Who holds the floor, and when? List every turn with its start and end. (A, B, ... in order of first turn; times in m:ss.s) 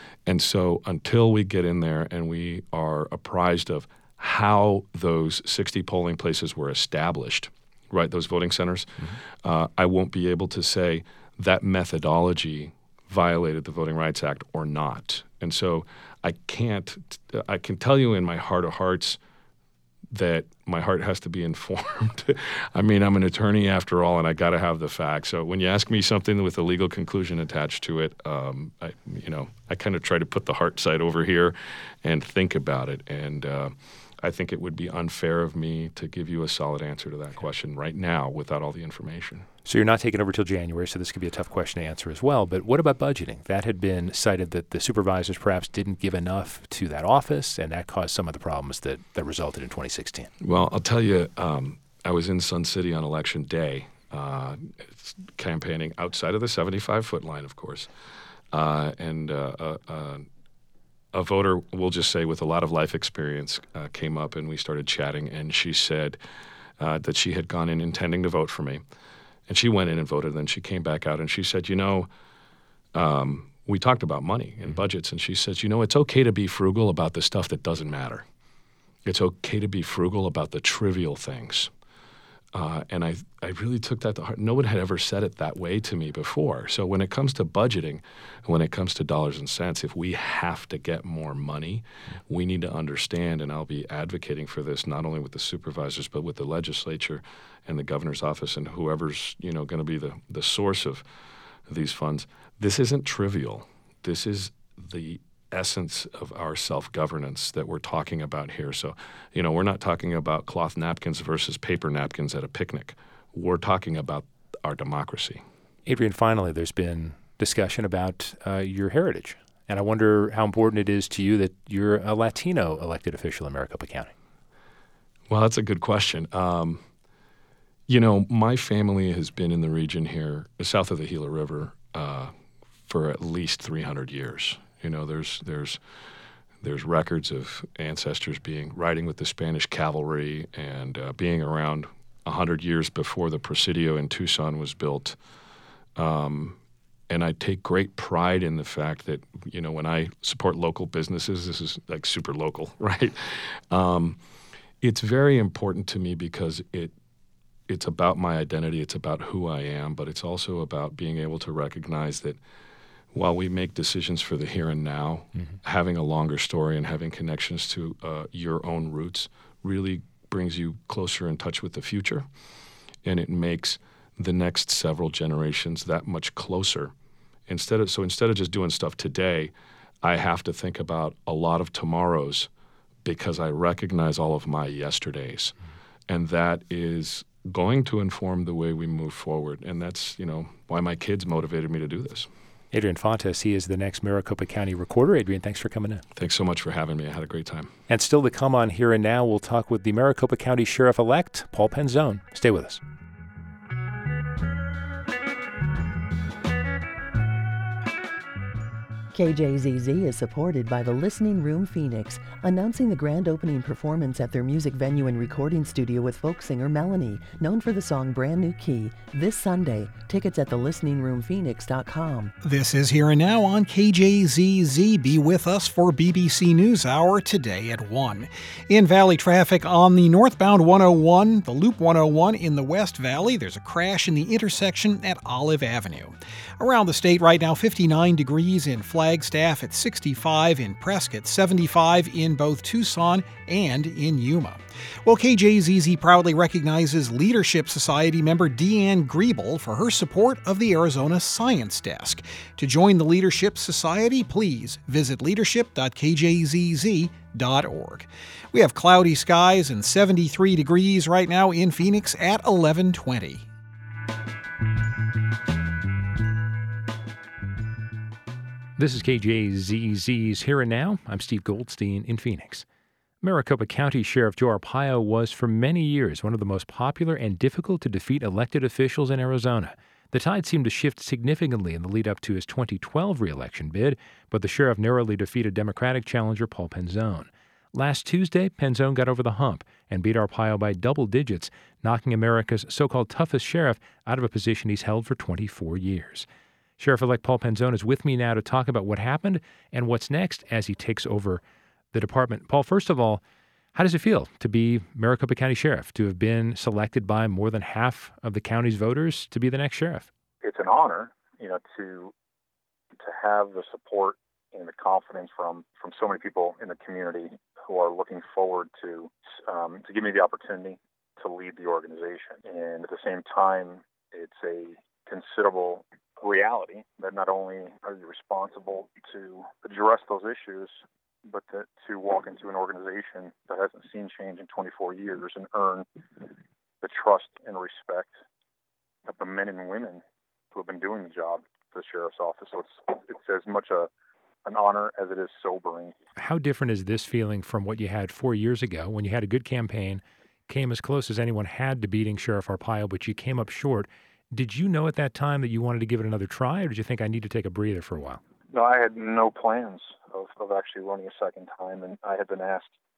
0:00.2-0:19.2 A
0:20.1-0:39.5 A
0:39.6-0:50.3 B
0:50.4-0:57.9 A
0:58.5-1:00.3 A
1:01.1-1:06.2 A
1:06.8-1:08.8 A
1:09.5-1:12.1 A
1:12.9-1:18.2 A
1:19.0-1:21.7 A
1:22.5-1:41.0 A
1:41.7-1:55.4 A
1:55.8-2:04.1 B
2:05.3-2:06.8 A
2:07.9-2:12.3 A
2:12.9-2:15.8 A
2:16.6-2:25.2 A
2:26.0-2:26.6 A
2:27.1-2:34.2 A
2:34.8-2:36.9 A
2:37.7-2:42.4 A
2:43.1-2:52.3 A
2:53.0-2:56.9 A
2:57.5-3:02.5 A
3:03.0-3:05.5 A
3:06.1-3:12.3 A
3:12.7-3:16.0 B
3:16.2-3:17.7 A
3:17.9-3:22.8 B
3:29.1-3:42.3 C
3:42.4-4:23.4 D
4:28.8-4:32.6 B
4:33.2-4:56.2 B
4:56.8-5:01.4 B
5:01.9-5:03.2 B
5:03.7-5:10.1 B
5:10.4-5:12.1 E
5:13.0-5:36.3 E
5:36.8-5:38.1 E
5:39.0-5:43.9 E
5:44.4-5:45.9 E
5:46.2-5:58.2 B
5:58.5-6:02.7 E